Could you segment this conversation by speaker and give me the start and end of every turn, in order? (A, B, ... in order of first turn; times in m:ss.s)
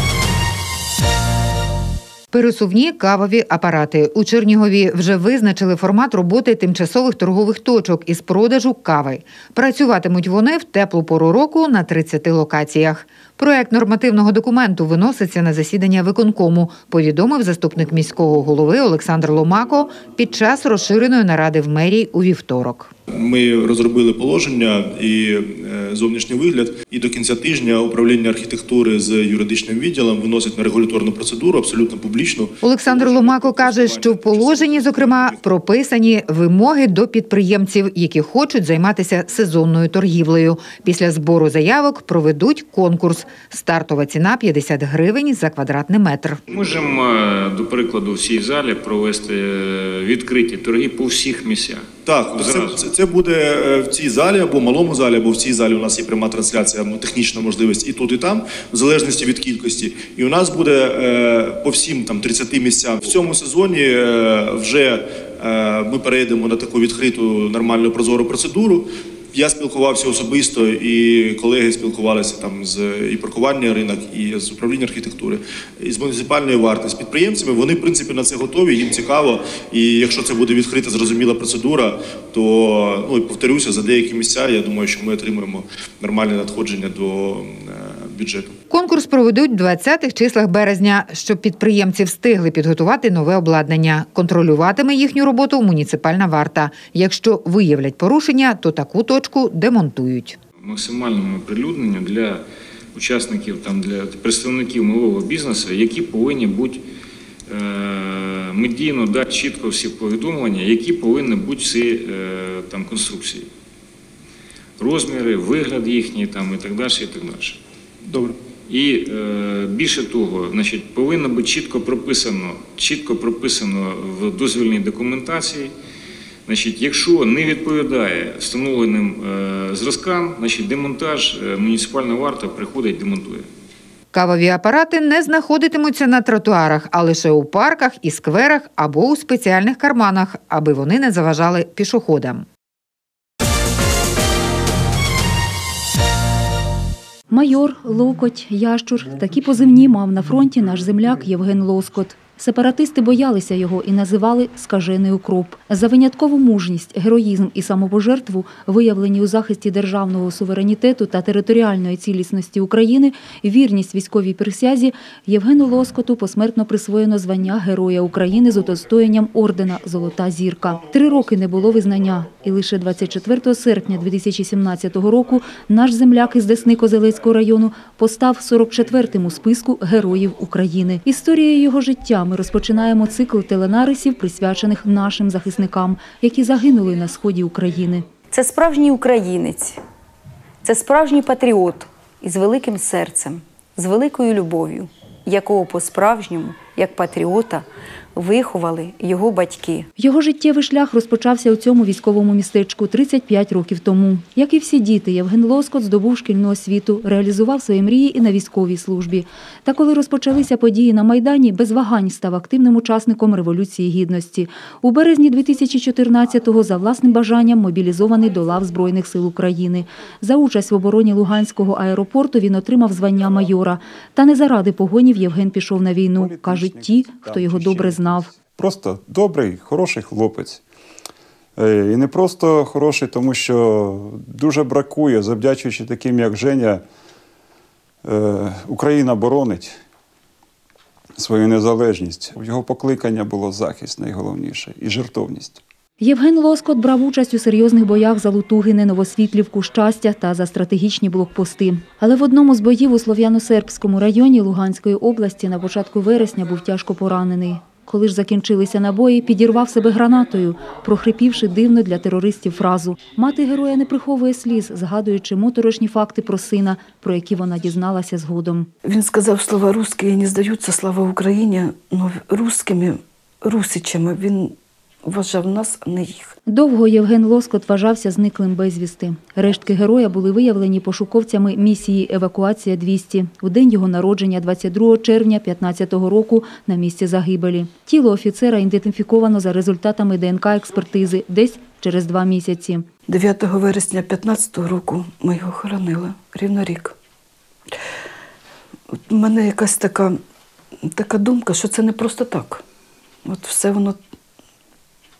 0:02.3-0:22.9 A
0:23.1-0:35.4 B
0:32.6-0:46.4 A
0:46.5-0:52.8 C
0:52.0-1:28.6 B
1:28.7-1:40.4 A
1:40.6-1:42.4 C
1:42.9-1:46.8 C
1:47.5-1:53.5 C
1:54.8-1:57.6 C
1:58.1-1:58.3 B
1:58.7-2:05.7 C
2:06.4-2:13.5 C
2:14.1-2:22.4 A
2:27.3-3:08.0 D
3:08.3-3:09.8 E
3:10.6-3:19.9 E
3:20.0-3:48.3 D
3:46.2-3:50.6 F
3:51.6-3:56.8 F
3:58.0-3:59.8 F
4:01.2-4:05.6 F
4:06.0-4:28.7 D
4:28.8-4:36.3 G
4:36.5-4:52.8 D
4:53.1-4:56.9 G
4:59.1-5:00.2 G
5:00.9-5:02.6 G
5:03.2-5:04.0 G